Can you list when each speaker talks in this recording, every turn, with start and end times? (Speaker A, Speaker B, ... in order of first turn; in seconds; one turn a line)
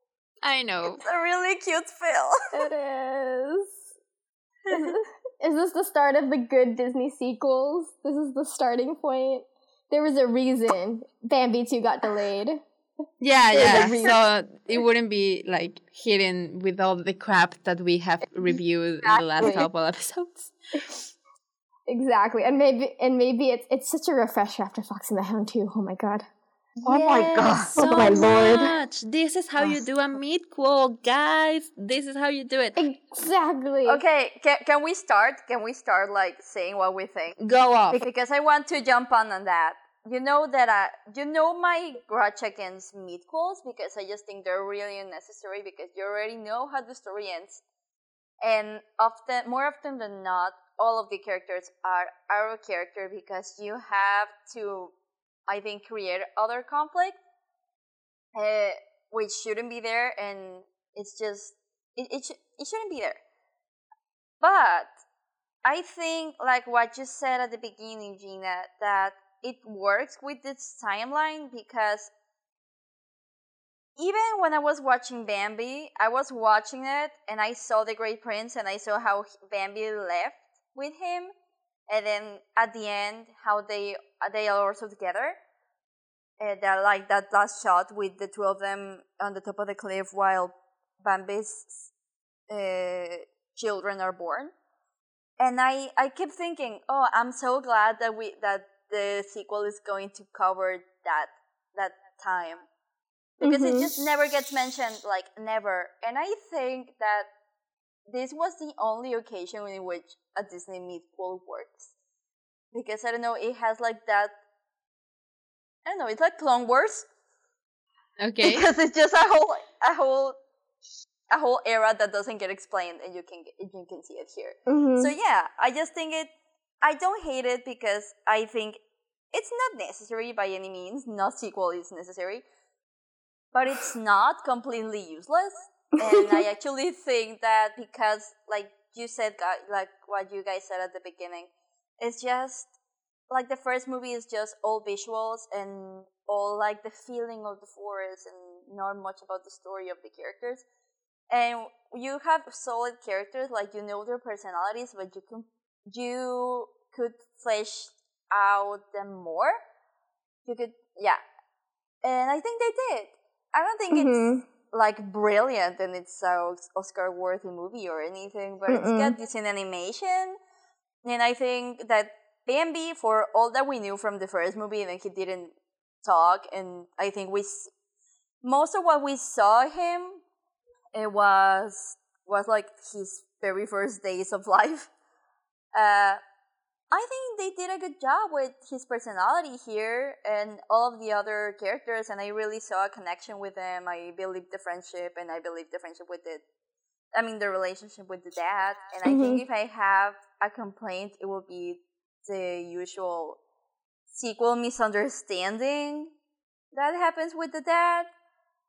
Speaker A: 0.4-1.0
Speaker B: 0.9-2.4
Speaker C: 2.5-3.8
Speaker C: 4.7-12.6
Speaker A: 13.2-20.9
Speaker C: 13.5-14.1
Speaker B: 19.2-19.6
Speaker C: 21.9-26.2
Speaker B: 26.9-27.7
Speaker C: 26.9-28.1
Speaker A: 27.4-32.8
Speaker C: 32.8-34.0
Speaker B: 33.9-37.4
Speaker A: 37.4-38.1
Speaker B: 37.9-47.6
Speaker B: 48.4-54.9
Speaker B: 55.5-57.2
Speaker B: 58.3-63.2
Speaker B: 64.4-64.9
Speaker B: 65.7-72.1
Speaker B: 74.0-81.3
Speaker B: 81.9-85.4
Speaker B: 86.4-91.9
Speaker B: 92.5-94.5
Speaker B: 95.4-102.6
Speaker B: 103.4-107.3
Speaker C: 103.4-103.9
Speaker B: 108.1-111.9
Speaker B: 112.7-114.3
Speaker B: 115.9-117.1
Speaker A: 118.2-118.7
Speaker B: 118.4-120.4
Speaker B: 121.3-126.3
Speaker C: 124.7-125.1
Speaker B: 126.8-128.8
Speaker B: 129.3-132.4
Speaker B: 133.5-142.7
Speaker C: 136.0-136.4
Speaker B: 143.3-150.6
Speaker B: 151.3-159.6
Speaker B: 160.5-161.2
Speaker B: 162.0-170.4
Speaker C: 163.9-164.4
Speaker C: 168.7-169.2
Speaker B: 171.1-175.5
Speaker B: 176.0-177.7
Speaker B: 178.4-180.2
Speaker B: 180.9-184.9
Speaker B: 185.7-186.2
Speaker B: 186.9-196.4
Speaker B: 197.1-203.4
Speaker C: 199.1-199.4
Speaker B: 204.1-206.1
Speaker B: 206.7-208.1